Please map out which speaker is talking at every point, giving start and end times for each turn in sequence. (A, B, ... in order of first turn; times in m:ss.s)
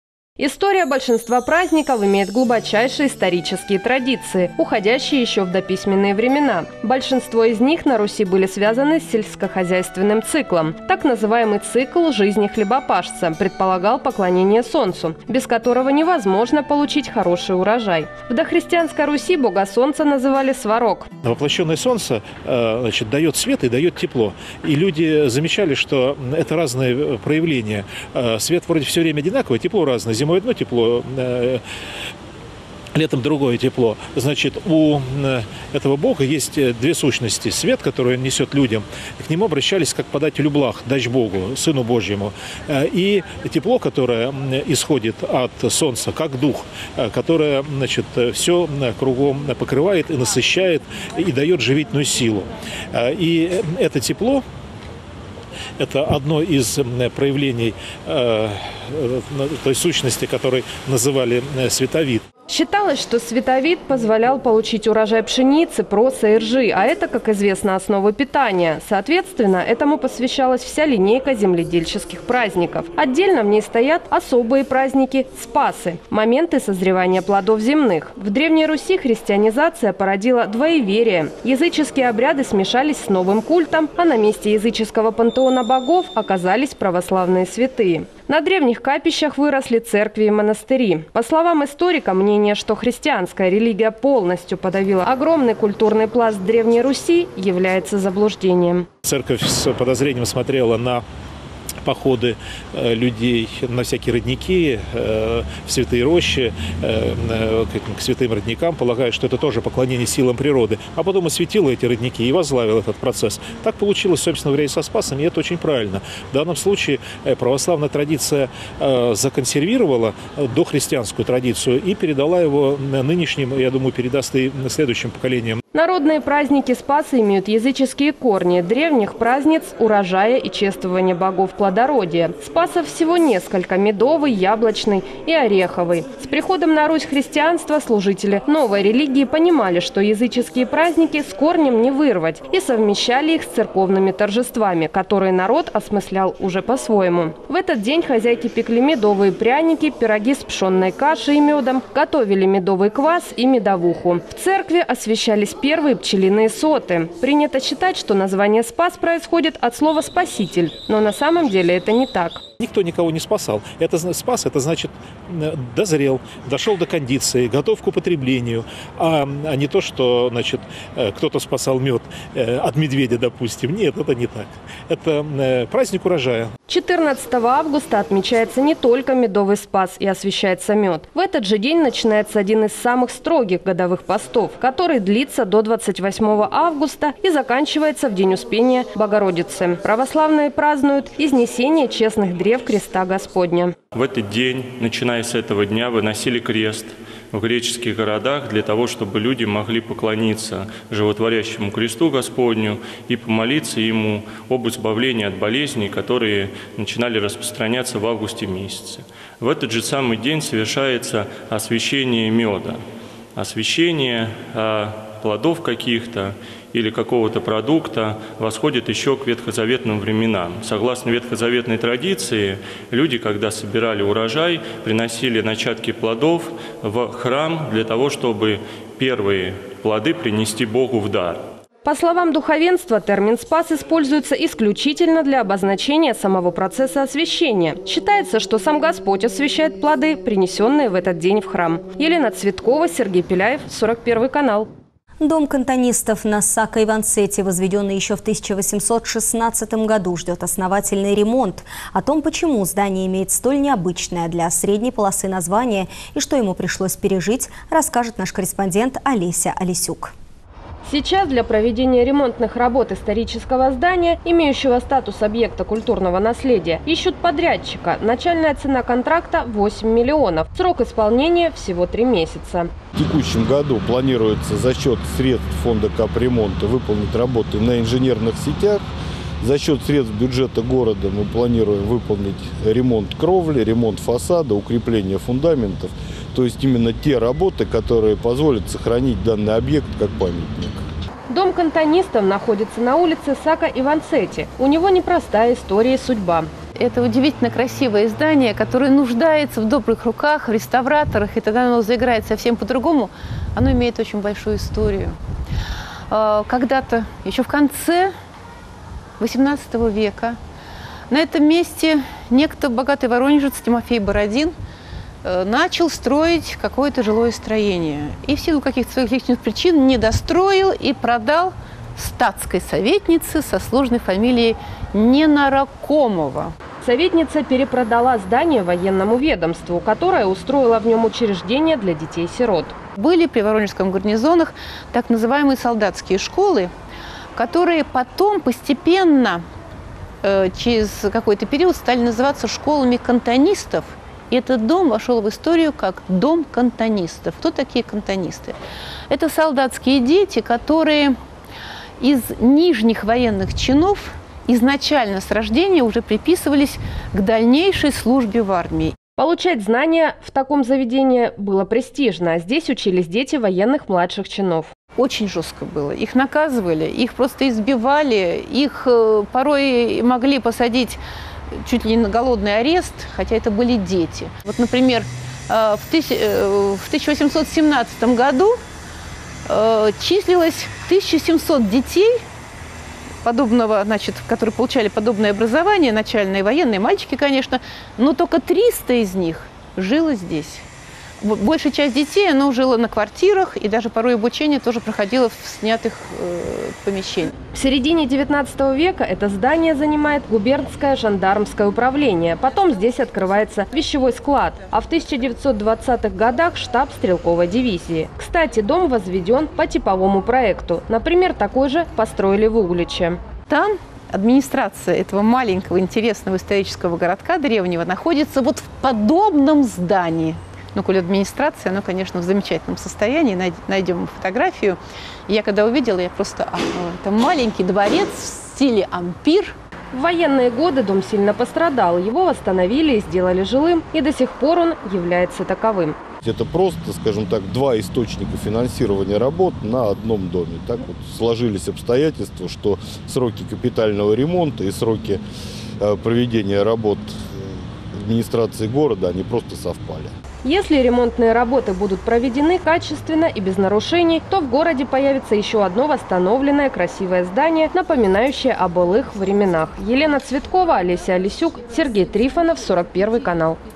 0:00.4-0:21.1 A
0:21.2-0:31.6 B
0:32.9-0:54.4 B
0:55.8-1:02.2 B
1:02.5-1:38.9 A
1:39.0-1:41.0 B
1:41.8-2:05.6 B
2:05.7-2:42.4 A
2:42.6-2:56.5 B
2:56.7-3:13.7 A
3:13.9-3:32.8 C
3:33.4-3:51.4 C
3:51.8-4:04.7 A
4:05.2-4:20.1 D
4:20.8-4:32.7 A
4:33.0-4:38.8 E
4:39.4-4:50.8 E
4:51.3-4:56.5 A
4:56.8-5:05.2 F
5:06.1-5:08.1 F
5:09.2-5:10.4 F
5:11.1-5:14.5 F
5:15.2-5:26.5 F
5:26.8-5:32.7 A
5:33.0-5:36.7 F
5:37.4-5:39.4 F
5:40.2-5:48.6 F
5:49.1-5:51.2 F
5:52.0-5:59.0 F
5:59.2-6:04.7 A
6:05.0-6:11.0 F
6:11.6-6:18.6 F
6:19.5-6:22.1 F
6:23.2-6:30.6 F
6:31.2-6:37.3 F
6:37.5-6:53.2 A
6:53.5-7:04.8 F
7:05.3-7:09.5 F
7:09.9-7:16.0 A
7:16.2-7:25.2 E
7:25.8-7:27.2 E
7:27.9-7:30.1 E
7:30.4-7:43.6 A